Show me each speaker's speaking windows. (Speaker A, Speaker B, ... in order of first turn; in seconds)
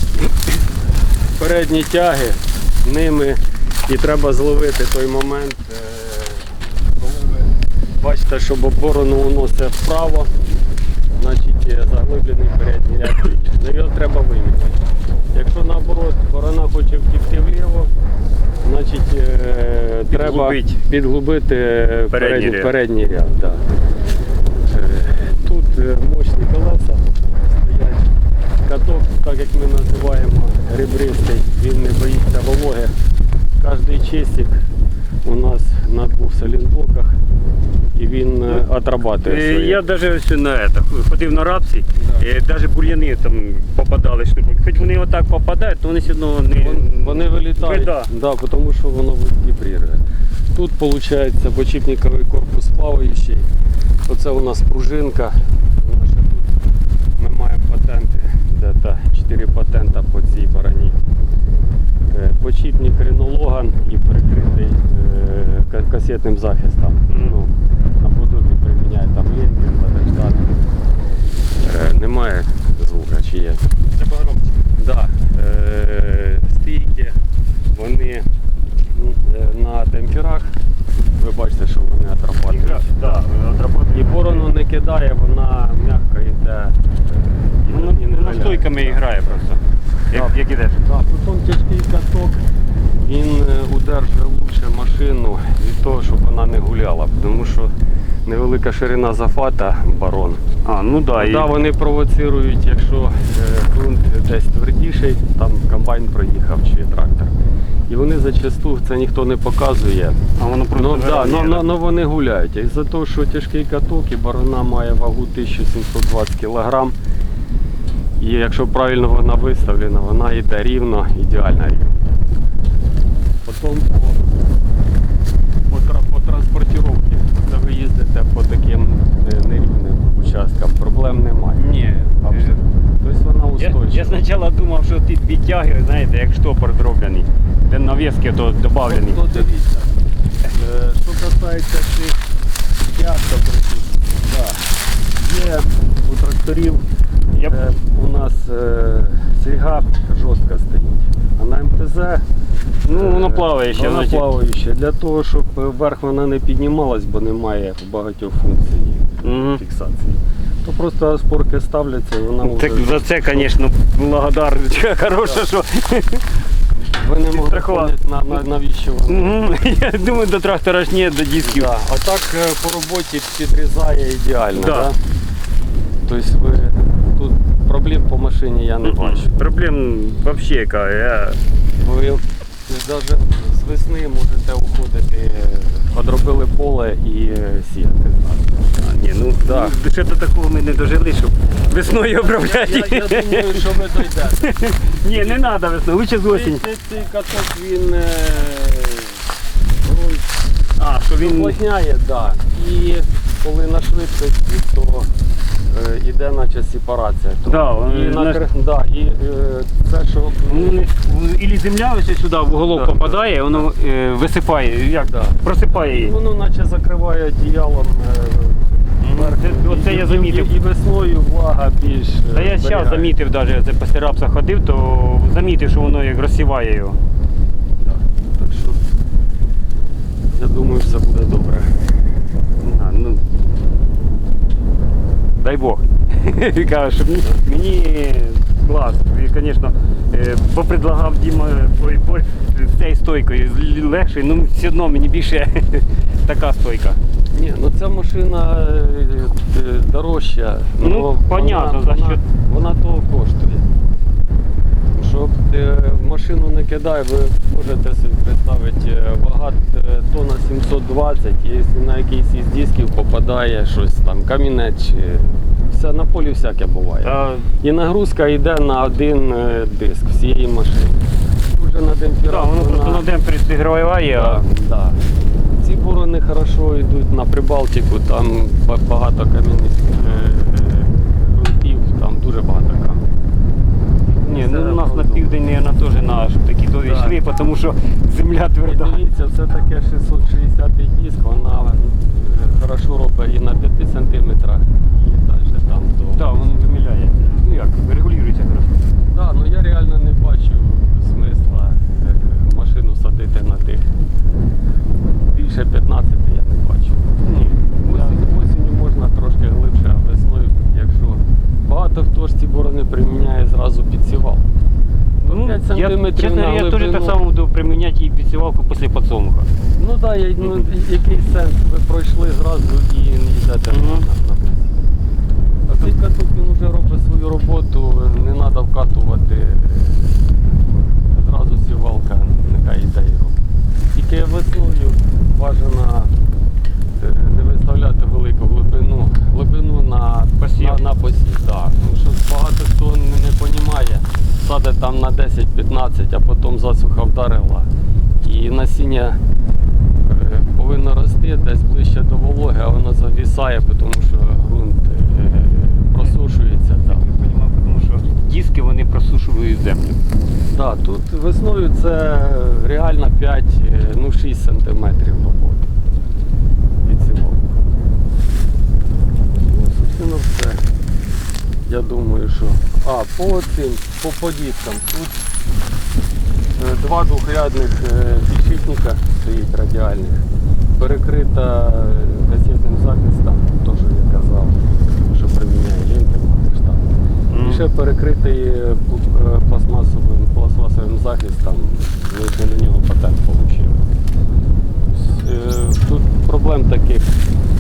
Speaker A: 1.4-10.3, 11.2-14.8, 15.3-17.9, 18.6-23.6, 24.7-28.1, 28.6-32.9, 33.6-34.6, 35.2-37.2, 37.9-39.8, 46.6-50.0, 50.5-53.5, 54.1-56.6, 57.2-61.0, 62.1-70.6, 71.6-77.2, 77.7-78.3, 78.9-80.6, 81.1-83.2, 83.9-89.4, 90.1-92.4, 93.0-97.7, 98.2-100.4, 101.2-107.3, 107.9-110.2, 110.7-116.9, 118.2-122.3, 123.4-124.3, 125.7-131.7, 132.2-134.3, 138.8-139.9, 140.5-142.2, 142.9-146.8, 147.4-152.2, 152.8-163.5, 165.2-165.4, 166.8-169.7, 171.4-175.0, 176.1-179.3, 181.8-188.6, 189.4-189.7, 191.9-194.5, 195.1-195.5, 196.3-199.2, 199.8-200.3, 201.1-205.1, 205.7-210.9, 212.7-213.7, 215.1-223.1, 227.8-228.8, 230.3-231.8, 247.3-253.7, 254.9-273.0, 274.1-275.0, 275.6-283.1, 284.1-285.3, 286.8-287.2, 288.6-296.2, 299.1-303.9, 305.3-314.5, 315.2-317.2, 319.8-324.8, 325.7-333.4, 333.9-336.1, 337.0-347.7, 348.2-349.2, 350.0-357.0, 360.5-365.7, 366.8-367.6, 369.3-370.6, 371.7-375.2, 376.6-380.2, 380.8-386.9, 387.4-393.8, 394.9-397.1
Speaker B: 20.1-20.8, 22.1-22.7, 38.5-48.1, 67.1-67.4, 82.5-84.5, 87.7-90.8, 100.6-101.5, 110.4-111.6, 131.6-132.6, 133.6-139.4, 152.9-154.3, 159.2-159.6, 162.4-166.2, 167.2-168.4, 169.1-171.7, 174.5-174.9, 178.8-181.4, 188.8-196.6, 200.8-201.6, 207.4-208.4, 210.5-216.1, 219.0-220.5, 222.3-227.0, 232.6-233.2, 235.4-247.0, 250.8-252.2, 267.0-267.5, 272.3-274.4, 279.9-280.3, 284.2-289.0, 296.1-298.8, 307.2-308.2, 315.2-319.5, 320.4-320.7, 323.7-324.0, 340.4-340.8, 356.9-360.0, 387.3-387.6